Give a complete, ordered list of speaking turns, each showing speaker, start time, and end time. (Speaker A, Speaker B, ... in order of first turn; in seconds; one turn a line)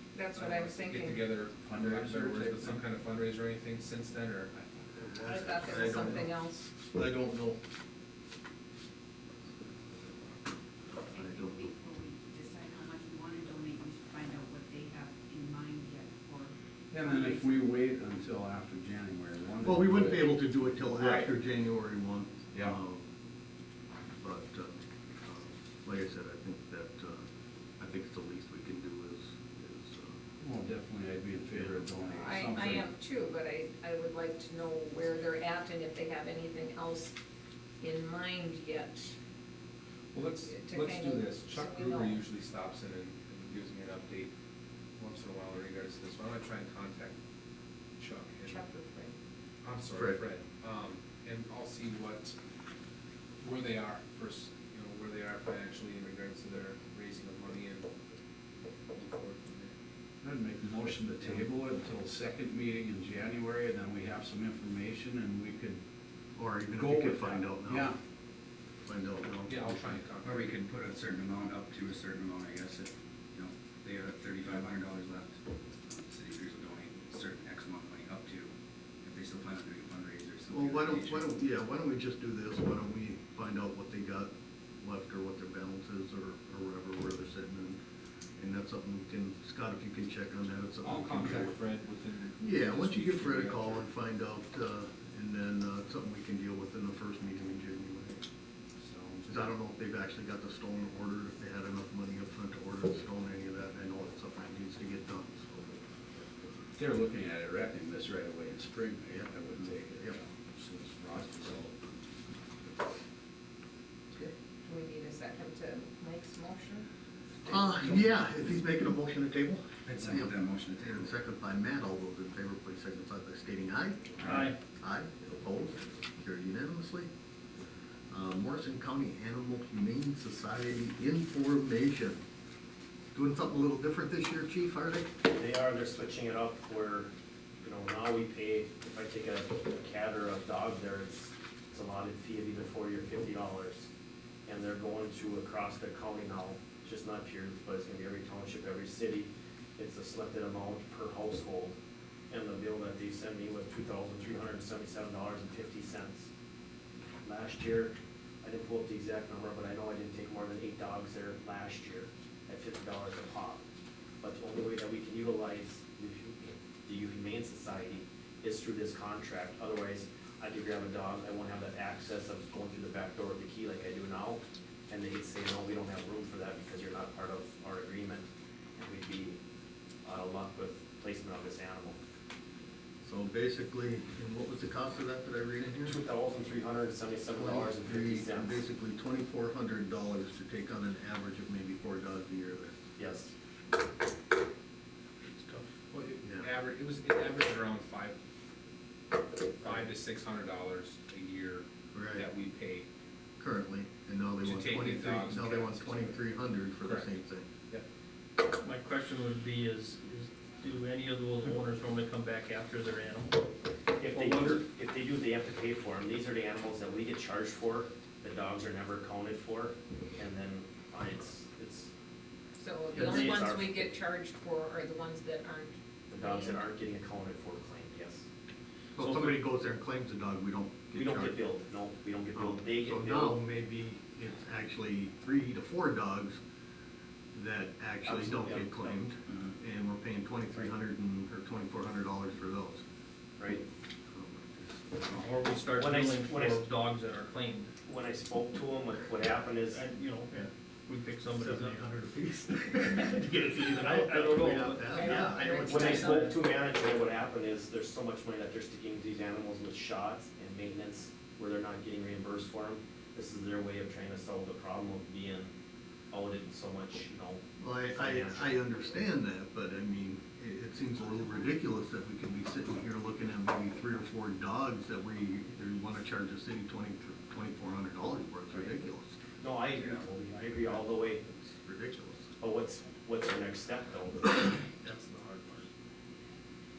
Speaker A: 0.1-1.3
Speaker B: 0.3-4.9
Speaker C: 1.6-2.8
Speaker D: 5.0-6.3
Speaker A: 5.2-6.7
Speaker D: 6.9-7.6
Speaker E: 11.1-17.4
Speaker D: 11.1-11.7
Speaker C: 16.9-21.3
Speaker D: 19.6-23.1
Speaker C: 22.5-22.8
Speaker D: 24.2-27.3
Speaker D: 27.8-30.2
Speaker C: 30.4-32.9
Speaker A: 32.2-37.1
Speaker A: 37.8-39.1
Speaker B: 40.1-44.3
Speaker A: 40.5-42.2
Speaker B: 45.0-47.2
Speaker B: 48.0-48.6
Speaker A: 48.5-49.2
Speaker B: 49.6-52.4
Speaker D: 49.9-50.2
Speaker B: 53.4-58.1
Speaker B: 58.9-59.7
Speaker C: 60.2-65.8
Speaker D: 66.4-67.9
Speaker C: 66.8-68.0
Speaker D: 68.9-70.0
Speaker B: 69.5-70.5
Speaker F: 70.2-78.5
Speaker F: 79.0-81.3
Speaker D: 80.5-87.8
Speaker D: 88.4-91.5
Speaker B: 90.8-93.8
Speaker D: 92.4-98.2
Speaker B: 98.8-99.5
Speaker D: 99.3-105.8
Speaker C: 106.8-111.8
Speaker A: 114.6-116.9
Speaker D: 117.5-127.1
Speaker F: 117.7-118.1
Speaker F: 119.9-121.2
Speaker F: 124.2-124.5
Speaker G: 124.3-124.5
Speaker D: 128.1-132.2
Speaker D: 133.1-135.1
Speaker H: 135.2-137.1
Speaker H: 137.6-143.9
Speaker H: 144.5-151.8
Speaker H: 152.3-156.3
Speaker H: 157.2-163.6
Speaker H: 164.2-179.4
Speaker H: 180.0-182.0
Speaker D: 183.0-186.0
Speaker H: 185.8-188.6
Speaker D: 187.3-192.7
Speaker H: 193.0-193.3
Speaker G: 195.2-195.7
Speaker B: 195.9-198.2
Speaker B: 199.6-202.8
Speaker D: 201.9-202.3
Speaker D: 203.4-207.5
Speaker B: 204.4-206.2
Speaker B: 206.8-207.1
Speaker G: 208.6-213.4
Speaker H: 214.0-221.9
Speaker G: 214.1-214.6
Speaker A: 222.6-226.6
Speaker H: 222.9-223.9
Speaker H: 226.1-228.2
Speaker D: 229.0-231.4
Speaker G: 229.0-229.3
Speaker H: 230.9-233.4
Speaker D: 232.3-236.4
Speaker D: 237.3-242.8
Speaker H: 238.1-239.0
Speaker D: 244.1-244.9
Speaker G: 245.1-247.7
Speaker H: 245.7-246.7
Speaker H: 247.8-249.8
Speaker G: 249.7-250.3
Speaker G: 250.9-256.3
Speaker D: 251.4-252.2
Speaker D: 252.9-256.1
Speaker A: 254.9-256.2
Speaker H: 255.1-265.5
Speaker H: 266.1-268.5
Speaker D: 267.6-279.2
Speaker H: 279.4-281.2
Speaker D: 281.3-282.3
Speaker H: 282.4-285.7